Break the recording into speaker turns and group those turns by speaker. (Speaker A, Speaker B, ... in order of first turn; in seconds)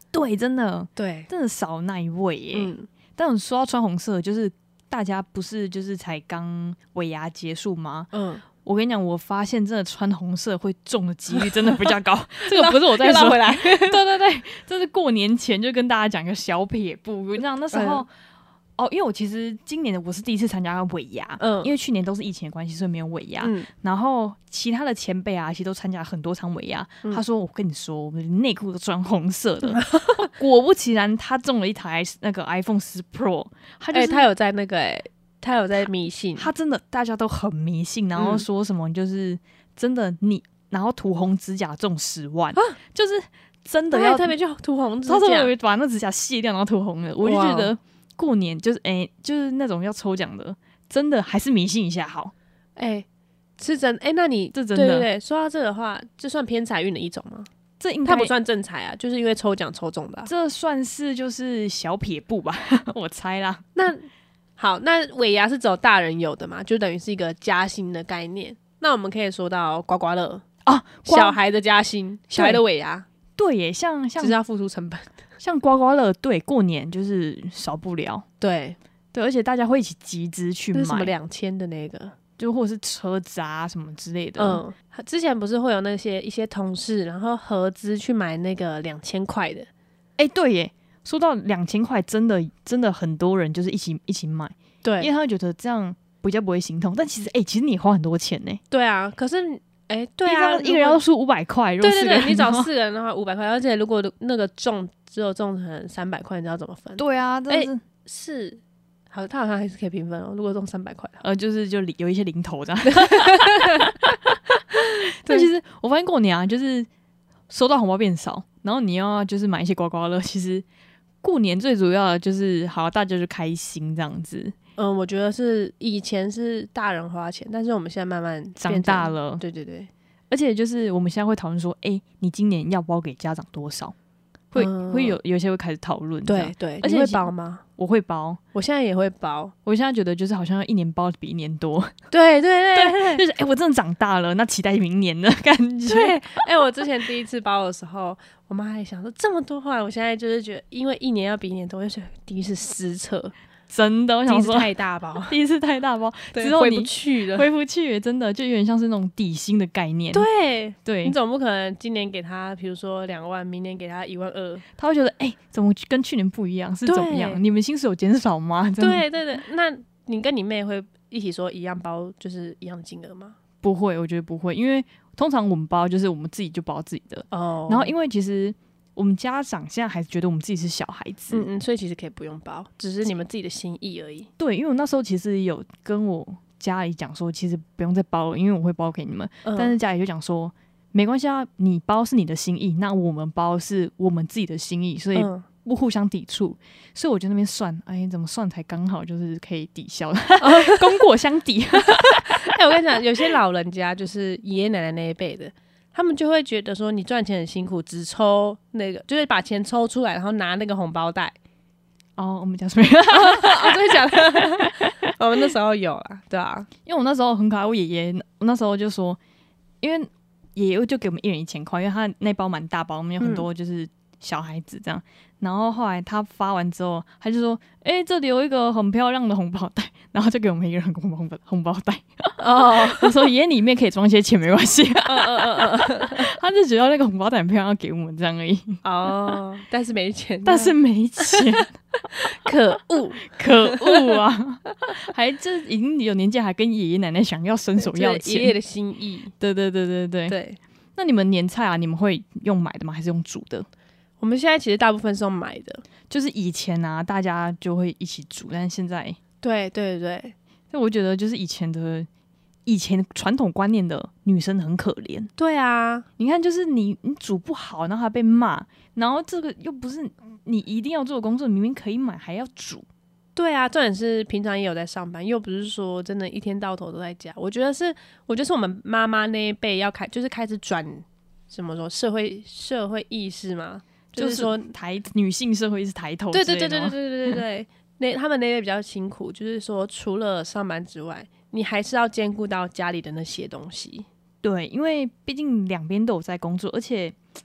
Speaker A: 0.1-8.1, 8.6-18.1, 18.8-34.3, 36.4-44.3, 45.1-52.3, 54.5-55.1, 57.8-58.3, 60.2-63.6, 70.7-71.4, 72.3-72.6, 73.4-74.4, 75.4-78.2, 79.1-81.1, 82.4-84.6, 90.2-98.6, 100.2-102.7, 107.0-107.8, 111.2-116.9, 117.5-120.6, 121.2-124.5, 128.6-129.4, 130.3-133.9, 134.5-138.4, 139.6-141.9, 142.7-146.5, 153.7-154.7, 155.3-160.2, 160.8-161.2, 164.8-169.0, 173.6-181.5, 184.4-202.5, 212.2-214.9, 216.8-219.2, 219.8-238.8, 240.4-241.7, 243.2-248.5, 249.4-250.3, 251.0-253.7, 256.1-259.2, 260.7-262.1, 262.6-265.3, 266.2-272.9, 284.1-287.4, 294.4-297.1
Speaker B: 0.9-1.3, 2.5-2.9, 8.1-8.4, 11.3-14.0, 17.7-18.0, 21.4-21.7, 23.4-23.7, 29.8-30.3, 33.9-36.5, 38.1-38.5, 43.9-45.5, 47.2-47.7, 52.8-53.0, 53.6-57.5, 58.0-60.3, 63.8-64.0, 64.6-70.4, 71.0-73.0, 74.2-75.1, 78.4-78.8, 80.7-82.2, 84.4-89.7, 94.8-95.1, 98.7-101.0, 101.8-111.2, 112.9-113.9, 124.8-129.9, 134.6-135.2, 136.2-137.6, 138.5-139.5, 142.1-143.2, 145.9-153.3, 154.2-155.3, 156.3-157.5, 160.1-164.6, 166.8-167.4, 168.8-173.4, 177.3-177.9, 181.3-184.3, 189.4-189.7, 195.1-195.4, 200.4-201.1, 201.8-211.3, 213.1-216.7, 223.2-223.4, 232.4-233.3, 235.0-236.3, 238.8-240.8, 242.1-244.2, 247.8-249.3, 250.3-250.6, 254.2-255.8, 259.4-260.3, 265.4-266.1, 273.4-284.6, 286.3-294.1